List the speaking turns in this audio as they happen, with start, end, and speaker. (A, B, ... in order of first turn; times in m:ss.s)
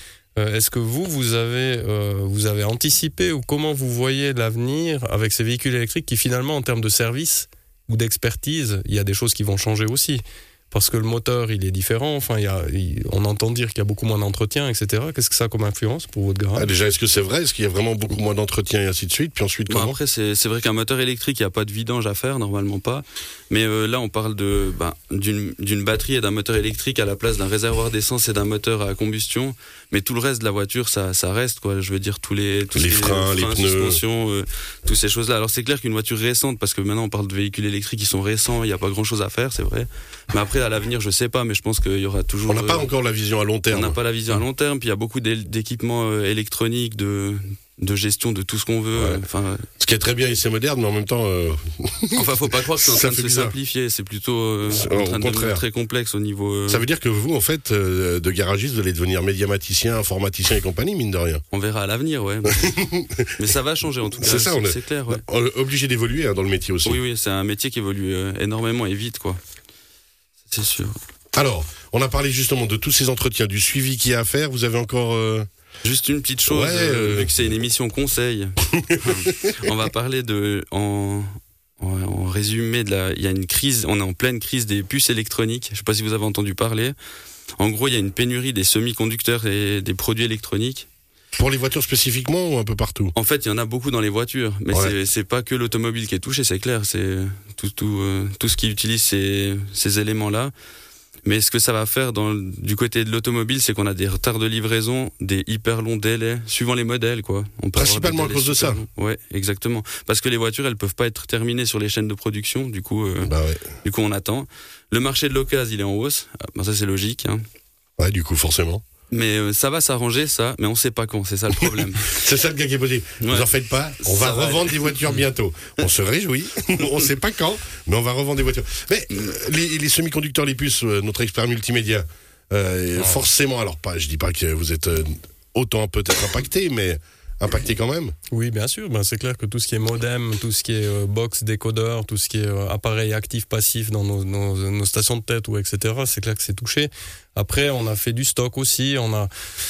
0:00.4-0:16.7 A
0:16.6-0:20.0 B
0:19.7-0:42.9 C
0:32.7-0:34.0 B
0:42.5-0:44.0 B
0:43.7-0:49.6 C
0:48.9-0:49.2 B
0:49.8-0:53.6 B
0:52.1-0:56.9 C
0:54.7-0:55.6 B
0:56.7-1:01.4 B
1:01.5-1:02.8 C
1:02.6-1:03.3 B
1:03.4-1:05.2 C
1:04.2-1:07.0 B
1:06.8-1:09.4 C
1:10.5-1:11.0 C
1:11.3-1:15.5 B
1:15.8-1:27.0 C
1:16.5-1:17.3 B
1:27.6-1:30.9 C
1:31.4-1:33.1 B
1:33.1-1:40.5 C
1:41.2-1:57.4 C
1:47.8-1:48.8 B
1:53.2-1:53.7 B
1:58.0-1:58.8 B
1:59.1-2:02.2 C
2:02.1-2:18.1 B
2:03.2-2:03.5 C
2:04.0-2:05.2 C
2:13.0-2:13.2 A
2:18.3-2:29.3 A